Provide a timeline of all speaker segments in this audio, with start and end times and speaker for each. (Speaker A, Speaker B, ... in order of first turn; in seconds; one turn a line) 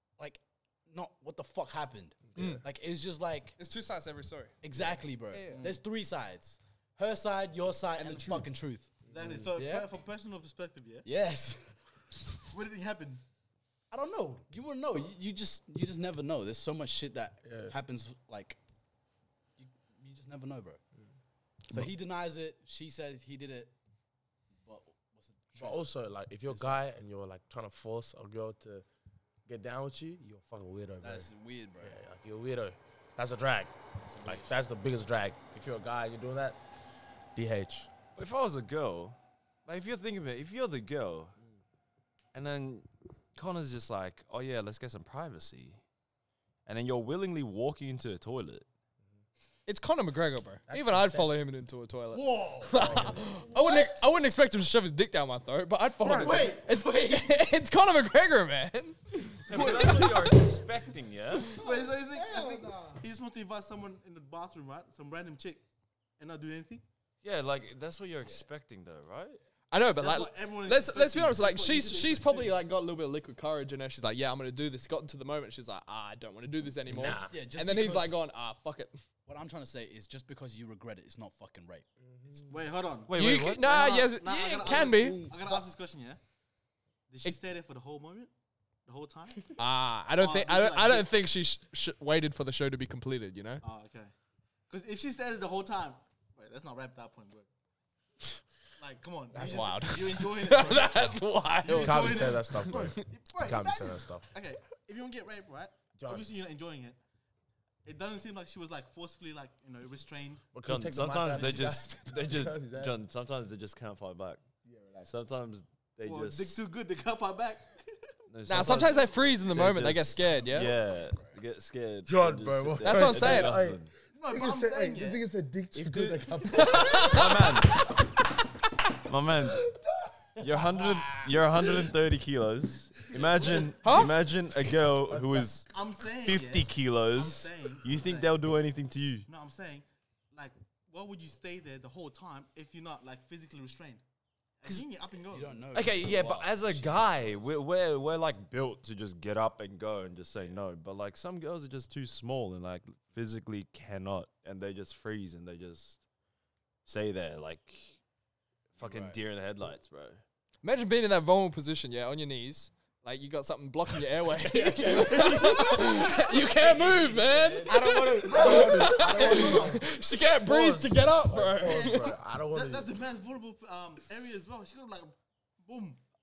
Speaker A: 0.2-3.6
Speaker B: 2.3-2.6
Speaker C: 2.4-2.6
Speaker C: 3.6-4.5
Speaker A: 4.6-8.9
Speaker D: 5.5-5.8
Speaker B: 8.0-8.5
Speaker B: 9.1-9.5
Speaker D: 9.1-11.1
Speaker A: 9.6-9.9
Speaker A: 11.0-11.8
Speaker D: 12.5-13.2
Speaker A: 13.9-18.6
Speaker B: 17.4-17.7
Speaker A: 19.6-20.8
Speaker A: 21.7-23.7
Speaker A: 24.6-25.9
Speaker B: 25.6-28.9
Speaker A: 26.5-26.8
Speaker B: 29.5-31.3
Speaker A: 31.0-32.0
Speaker B: 31.8-33.7
Speaker A: 34.0-34.6
Speaker B: 34.2-36.6
Speaker B: 37.4-37.9
Speaker E: 38.2-41.4
Speaker E: 42.3-45.8
Speaker E: 46.7-48.7
Speaker C: 49.7-60.5
Speaker B: 50.7-51.3
Speaker A: 52.1-54.0
Speaker B: 52.6-53.4
Speaker D: 56.0-56.6
Speaker E: 56.1-56.4
Speaker A: 56.2-57.2
Speaker E: 59.5-61.6
Speaker D: 61.5-65.6
Speaker A: 61.6-63.0
Speaker D: 66.2-66.8
Speaker E: 67.2-69.4
Speaker C: 69.7-79.0
Speaker D: 70.0-72.5
Speaker B: 76.9-77.3
Speaker A: 77.3-78.2
Speaker A: 79.3-81.8
Speaker B: 82.0-82.6
Speaker D: 82.5-86.2
Speaker E: 83.1-83.8
Speaker C: 83.2-85.2
Speaker B: 84.7-85.6
Speaker D: 87.1-88.3
Speaker D: 88.9-89.5
Speaker C: 89.6-93.6
Speaker D: 90.2-91.1
Speaker D: 93.6-94.1
Speaker D: 94.7-97.5
Speaker D: 98.8-107.0
Speaker C: 99.3-103.0
Speaker B: 101.7-104.2
Speaker B: 106.0-106.3
Speaker D: 107.8-110.5
Speaker B: 110.5-113.0
Speaker E: 110.6-114.4
Speaker B: 114.6-115.2
Speaker E: 115.0-116.6
Speaker D: 116.0-118.1
Speaker E: 118.3-123.9
Speaker C: 118.5-120.7
Speaker A: 120.5-121.4
Speaker B: 122.0-127.2
Speaker C: 122.8-123.6
Speaker D: 124.1-125.2
Speaker E: 125.8-126.3
Speaker C: 126.5-127.6
Speaker E: 127.0-127.9
Speaker E: 129.1-129.7
Speaker E: 130.4-135.7
Speaker A: 130.7-131.3
Speaker D: 133.4-133.9
Speaker C: 133.8-134.1
Speaker B: 135.1-135.5
Speaker D: 135.7-138.4
Speaker E: 136.2-139.3
Speaker D: 139.3-144.0
Speaker D: 144.6-145.7
Speaker A: 145.3-147.5
Speaker E: 145.7-156.0
Speaker E: 156.8-158.0
Speaker E: 158.8-160.2
Speaker A: 158.8-159.2
Speaker C: 160.6-172.1
Speaker B: 164.6-166.1
Speaker A: 165.1-167.8
Speaker D: 166.7-167.1
Speaker B: 167.7-169.9
Speaker D: 168.3-169.7
Speaker B: 170.4-172.9
Speaker D: 171.7-176.0